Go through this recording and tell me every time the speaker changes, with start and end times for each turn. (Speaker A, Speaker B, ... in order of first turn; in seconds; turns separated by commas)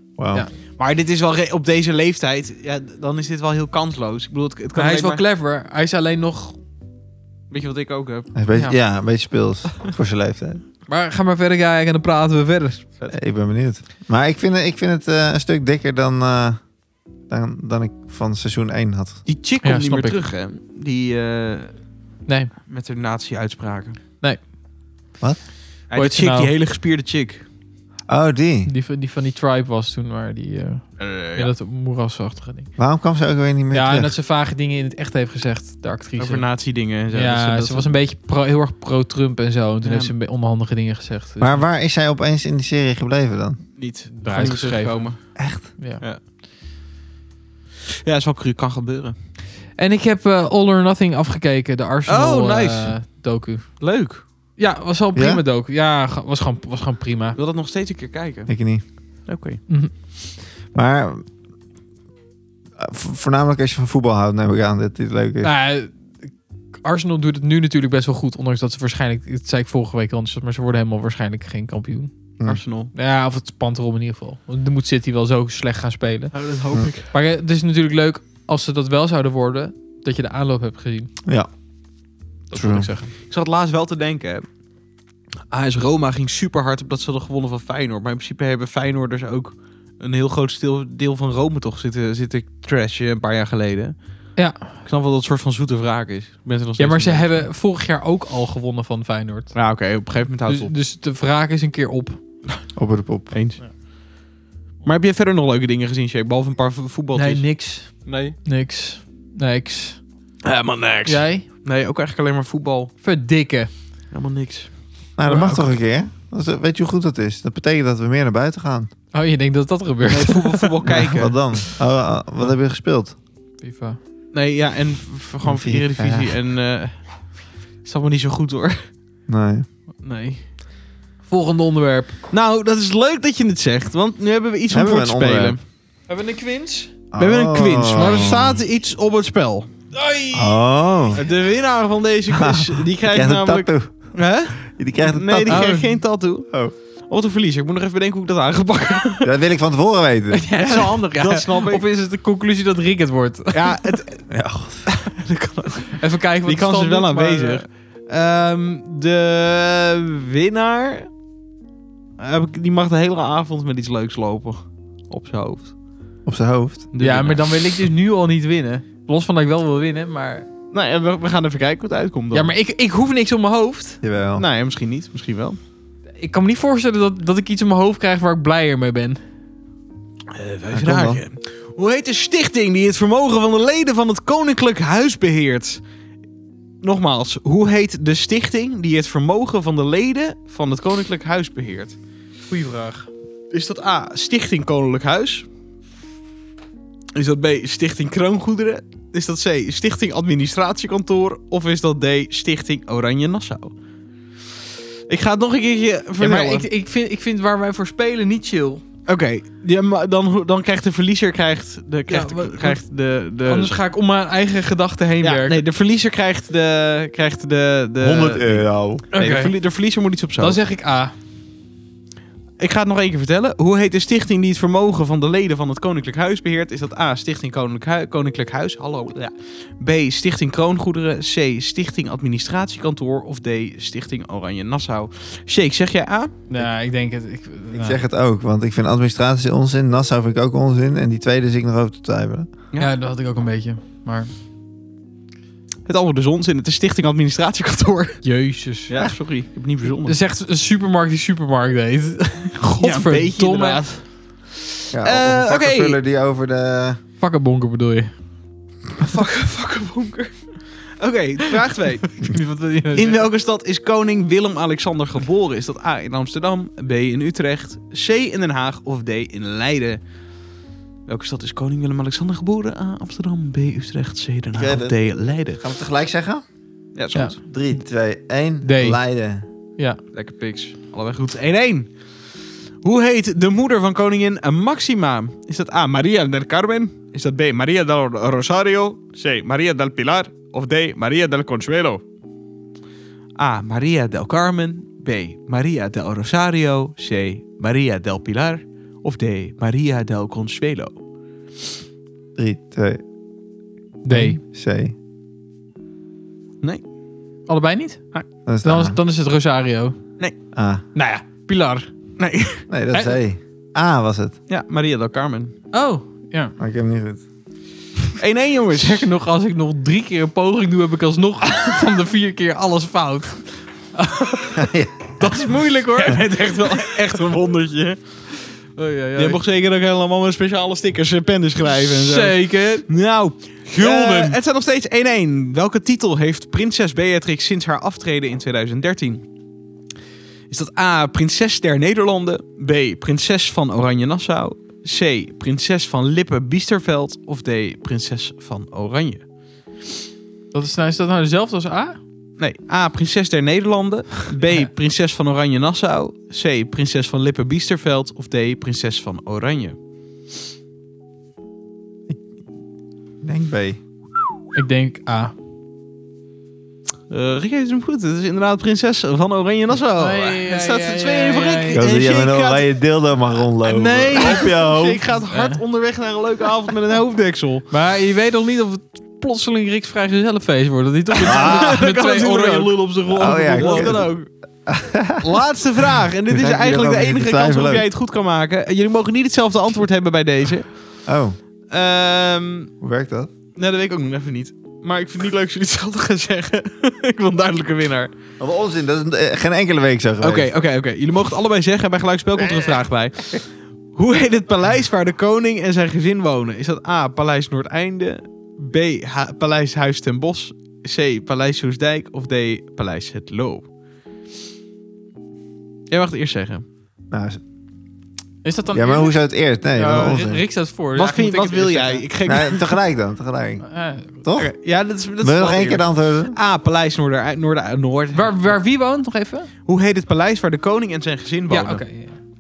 Speaker A: 0.2-0.5, Speaker B: 0.8-5.2, Speaker C: 4.8-6.6, Speaker B: 7.5-8.3, Speaker A: 8.3-10.6, Speaker C: 10.9-12.9, Speaker A: 13.1-16.6, Speaker A: 17.3-19.2, Speaker B: 19.3-21.8, Speaker C: 19.6-20.2, Speaker C: 22.3-22.5, Speaker B: 22.7-24.0, Speaker B: 25.9-27.4, Speaker C: 25.9-26.5, Speaker A: 28.1-28.7, Speaker C: 28.7-32.7, Speaker B: 31.0-31.5, Speaker A: 32.8-34.1, Speaker C: 33.7-36.5, Speaker B: 36.2-38.0, Speaker C: 37.1-41.6, Speaker B: 39.8-40.1, Speaker A: 41.4-43.6, Speaker B: 43.8-45.3, Speaker C: 44.2-46.0, Speaker A: 45.4-45.7, Speaker B: 47.9-49.1, Speaker C: 49.8-53.7, Speaker B: 52.1-53.0, Speaker B: 53.8-54.2, Speaker C: 54.6-57.4, Speaker A: 55.1-55.4, Speaker B: 57.4-58.5, Speaker A: 58.5-58.8, Speaker B: 59.3-59.6, Speaker A: 60.7-61.3, Speaker A: 62.8-65.5, Speaker C: 65.4-66.3, Speaker C: 66.8-72.1, Speaker B: 72.5-72.9, Speaker C: 72.9-76.3, Speaker B: 76.3-77.1, Speaker C: 77.1-81.1, Speaker C: 82.5-83.1, Speaker A: 82.5-82.9, Speaker B: 83.2-84.5, Speaker B: 85.5-97.5, Speaker C: 94.4-94.8, Speaker C: 96.8-99.5, Speaker B: 99.5-100.7, Speaker C: 100.5-102.2, Speaker A: 102.8-103.3, Speaker B: 103.3-103.6, Speaker B: 104.8-108.4, Speaker C: 107.2-110.0, Speaker B: 110.4-112.9, Speaker C: 111.1-111.5, Speaker C: 113.0-113.7, Speaker B: 114.1-114.7, Speaker A: 115.2-118.9, Speaker B: 115.2-115.7, Speaker C: 119.1-121.1, Speaker B: 120.1-121.4, Speaker A: 120.9-123.2, Speaker C: 123.6-124.0, Speaker B: 124.3-127.1, Speaker A: 125.4-126.3, Speaker B: 127.8-128.8, Speaker A: 129.3-129.7, Speaker C: 130.0-130.5, Speaker C: 131.3-132.2, Speaker B: 132.3-135.6, Speaker A: 134.7-135.6, Speaker C: 136.1-136.9, Speaker A: 137.1-138.6, Speaker B: 137.2-139.7, Speaker C: 139.9-140.6, Speaker A: 140.3-141.2, Speaker B: 141.2-146.5, Speaker A: 142.3-143.9, Speaker A: 144.7-145.7, Speaker C: 145.5-146.0, Speaker B: 147.1-149.3, Speaker A: 149.2-150.4, Speaker C: 150.3-153.8, Speaker B: 150.6-151.8, Speaker B: 153.5-154.2, Speaker A: 154.3-154.9, Speaker B: 154.9-161.1, Speaker C: 155.9-157.7, Speaker B: 162.2-165.7, Speaker A: 166.3-166.9, Speaker B: 166.9-167.5, Speaker C: 167.0-170.5, Speaker B: 170.7-172.5, Speaker C: 172.3-174.0, Speaker A: 174.0-174.4, Speaker B: 174.4-175.6, Speaker C: 176.2-179.2, Speaker B: 180.3-185.8, Speaker A: 180.7-181.2, Speaker B: 186.8-192.0, Speaker C: 192.5-193.1, Speaker B: 193.5-195.5, Speaker B: 197.2-203.7, Speaker B: 205.1-206.7, Speaker C: 206.2-208.8, Speaker B: 209.1-213.8, Speaker C: 212.1-212.8, Speaker C: 213.4-215.6, Speaker B: 215.2-220.6, Speaker A: 218.0-219.1, Speaker C: 219.1-219.5, Speaker C: 220.4-221.1, Speaker B: 222.6-236.4, Speaker C: 236.5-238.0, Speaker A: 237.7-242.5, Speaker C: 242.8-244.3, Speaker B: 245.9-248.2, Speaker C: 248.2-248.9, Speaker B: 248.9-250.2, Speaker C: 250.1-253.8, Speaker B: 252.8-254.1, Speaker A: 254.9-257.0, Speaker B: 254.9-256.0, Speaker C: 257.2-258.1, Speaker B: 259.0-262.2, Speaker C: 262.2-263.3, Speaker B: 263.0-270.0, Speaker B: 271.1-275.6, Speaker A: 274.5-275.0, Speaker A: 275.6-276.4, Speaker B: 276.9-277.4, Speaker A: 277.5-279.5, Speaker C: 278.6-279.0, Speaker B: 280.1-281.9, Speaker B: 282.8-292.0, Speaker B: 293.4-301.0, Speaker A: 302.4-303.0, Speaker C: 304.0-304.4, Speaker A: 304.1-304.9, Speaker C: 307.5-308.0, Speaker A: 308.5-309.0, Speaker C: 308.6-310.0, Speaker A: 310.6-310.8, Speaker C: 310.9-311.9, Speaker B: 312.2-312.6, Speaker A: 312.7-314.4, Speaker C: 312.9-313.2, Speaker B: 314.5-315.5, Speaker C: 315.7-316.5, Speaker A: 316.6-317.2, Speaker B: 318.2-319.1, Speaker C: 318.8-327.1, Speaker A: 324.6-325.2, Speaker B: 326.0-328.0, Speaker C: 328.8-329.4, Speaker B: 329.2-339.2, Speaker C: 331.7-332.9, Speaker C: 333.7-334.4, Speaker B: 340.5-349.2, Speaker C: 350.5-352.0, Speaker B: 352.4-359.8, Speaker A: 363.2-363.8, Speaker C: 364.6-365.3, Speaker B: 367.1-372.7, Speaker C: 370.0-371.8, Speaker A: 371.7-375.1, Speaker B: 373.6-377.7, Speaker C: 375.2-375.6, Speaker C: 377.7-384.0, Speaker B: 381.2-384.3, Speaker A: 381.2-381.8, Speaker A: 383.1-385.4, Speaker B: 385.2-390.9, Speaker A: 386.3-387.9, Speaker A: 391.1-391.4, Speaker B: 391.7-392.7, Speaker A: 392.8-393.3, Speaker B: 393.6-398.1, Speaker A: 398.4-400.5, Speaker B: 400.2-413.6, Speaker A: 402.4-402.8, Speaker B: 415.9-416.7, Speaker A: 417.1-417.4, Speaker C: 418.4-419.2, Speaker A: 418.7-420.4, Speaker C: 419.7-422.1, Speaker B: 420.9-422.8, Speaker A: 422.3-424.6, Speaker C: 423.7-424.2, Speaker B: 424.4-428.6, Speaker A: 425.2-426.4, Speaker C: 428.1-429.5, Speaker B: 429.6-431.8, Speaker C: 431.5-432.2